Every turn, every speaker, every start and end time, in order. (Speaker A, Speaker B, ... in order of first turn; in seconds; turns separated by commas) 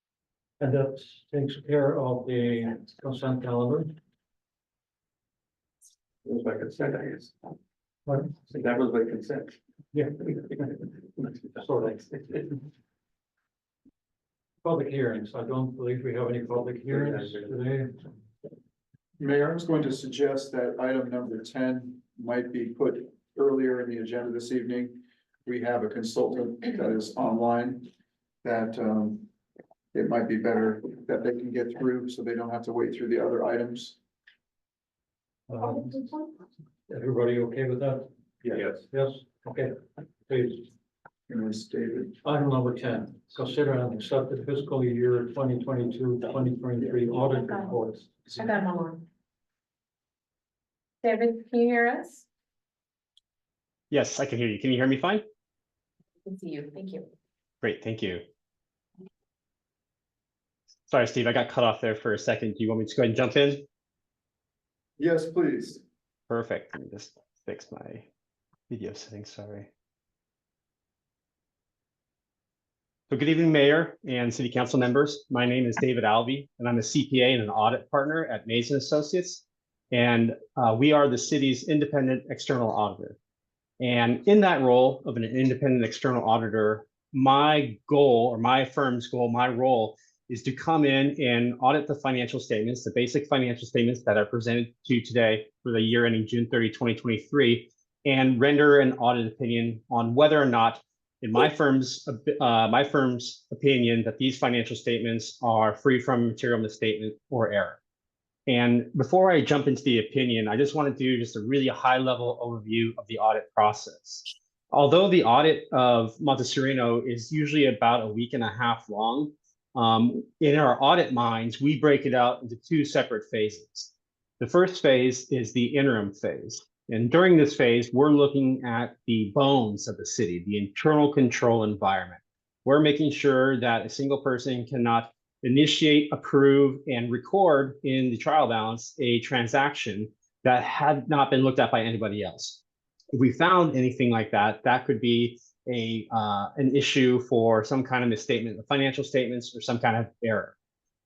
Speaker A: 0.6-4.0, Speaker B: 6.2-7.3, Speaker A: 8.1-8.4, Speaker B: 8.5-9.6, Speaker A: 9.9-10.8, Speaker B: 11.2-11.6, Speaker A: 11.6-12.6, Speaker B: 12.1-12.4, Speaker A: 14.6-18.1, Speaker B: 16.9-17.5, Speaker C: 19.2-27.9, Speaker C: 28.4-29.3, Speaker C: 29.9-34.0, Speaker A: 35.5-36.1, Speaker A: 36.9-38.1, Speaker B: 38.4-38.8, Speaker A: 38.7-40.7, Speaker C: 41.3-42.2, Speaker A: 42.2-48.6, Speaker D: 47.2-47.8, Speaker D: 48.4-49.0, Speaker D: 51.0-52.2, Speaker E: 53.9-55.2, Speaker D: 56.2-57.1, Speaker E: 57.6-58.2, Speaker E: 60.9-63.6, Speaker C: 65.0-65.8, Speaker E: 66.3-68.0, Speaker E: 68.7-69.7, Speaker E: 73.1-83.2, Speaker E: 83.8-107.8, Speaker E: 108.5-142.6, Speaker E: 143.2-150.5